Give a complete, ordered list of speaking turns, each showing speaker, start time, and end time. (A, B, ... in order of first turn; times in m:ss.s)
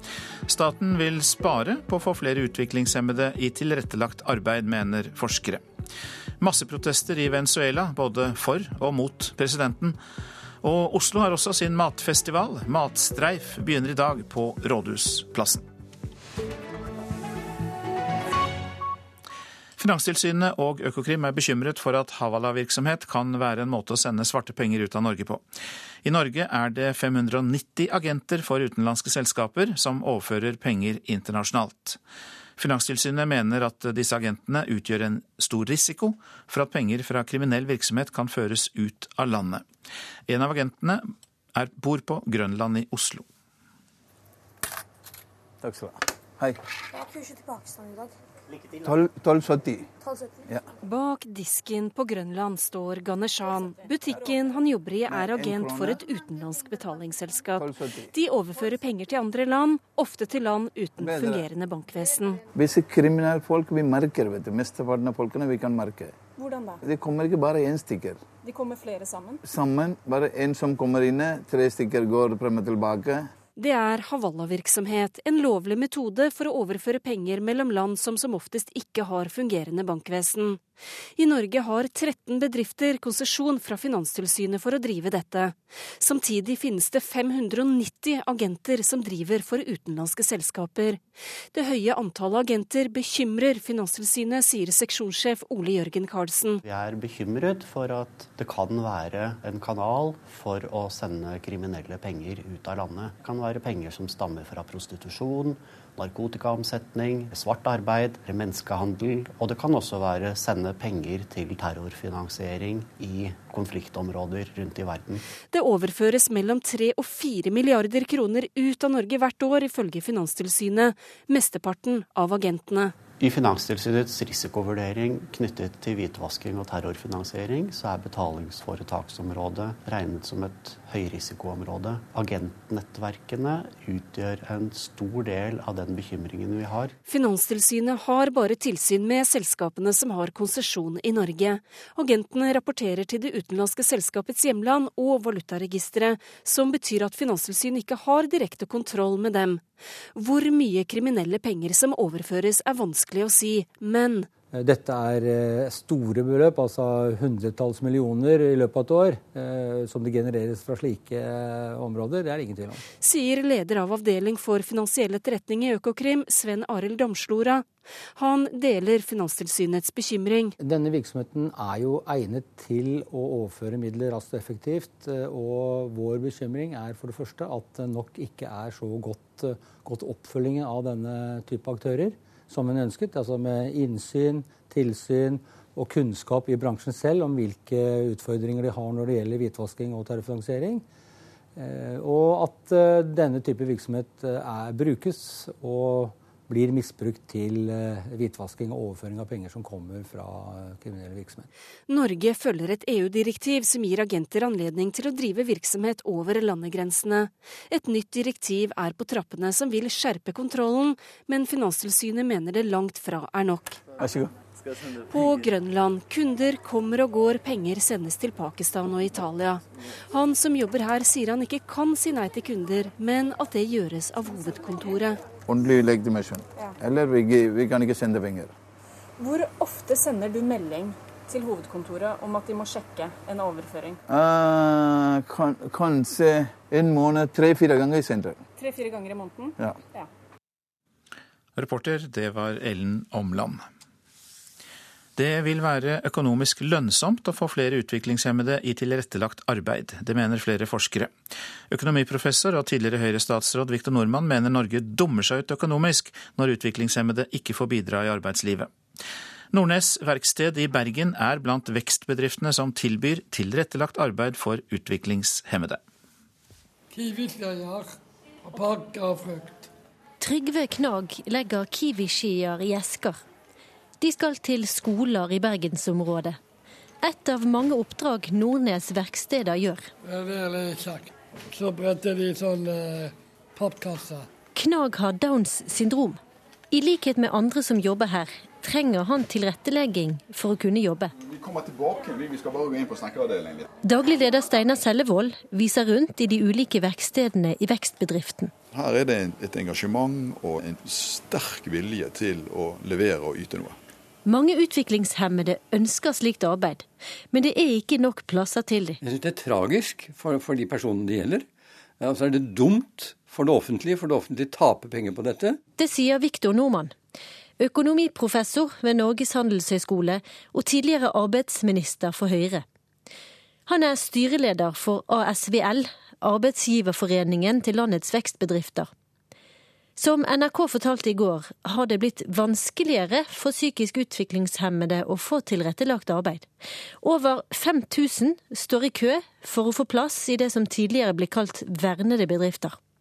0:00.5-0:05.6 A
0:06.4-0:10.0 A
0:10.6-0:15.6 A
0:19.8-0:25.4 A
0:26.0-0:32.0 A
0:32.6-0:39.6 A
0:40.3-0:43.2 A
0:45.6-0:46.6 B
0:48.8-0:49.9 B
0:50.8-1:02.4 C
0:55.1-0:56.0 B
0:57.6-0:58.1 B
1:01.0-1:01.4 B
1:02.5-1:06.1 B
1:06.4-1:06.8 D
1:06.8-1:08.2 B
1:08.4-1:09.4 D
1:09.4-1:13.3 B
1:13.6-1:20.6 C
1:21.2-1:31.0 C
1:31.5-1:36.6 C
1:36.6-1:55.2 E
1:55.5-2:02.9 C
2:03.2-2:16.9 E
2:17.0-2:34.3 C
2:34.5-2:42.8 F
2:43.0-2:50.5 C
2:50.6-3:10.8 F
3:11.6-3:21.5 F
3:21.9-3:33.8 C
3:34.0-3:34.3 B
3:35.0-3:45.2 C
3:45.4-3:48.5 B
3:49.2-3:54.0 D
3:54.1-3:58.4 B
3:58.6-4:00.1 D
4:01.6-4:03.6 A
4:05.2-4:11.1 A
4:11.7-4:18.7 A
4:19.5-4:25.8 A
4:26.9-4:27.9 G
4:28.4-4:29.6 G
4:30.2-4:33.2 H
4:34.0-4:36.4 H
4:37.0-4:39.9 H
4:40.0-4:44.3 G
4:44.5-4:46.2 H
4:46.7-4:51.1 H
4:51.3-4:53.7 I
4:53.8-4:58.5 H
4:58.7-5:03.8 I
5:04.2-5:09.0 H
5:09.0-5:11.4 J
5:12.0-5:15.6 J
5:15.8-5:16.9 H
5:17.6-5:22.6 H
5:23.7-5:28.9 H
5:30.0-5:36.5 H
5:37.0-5:42.8 H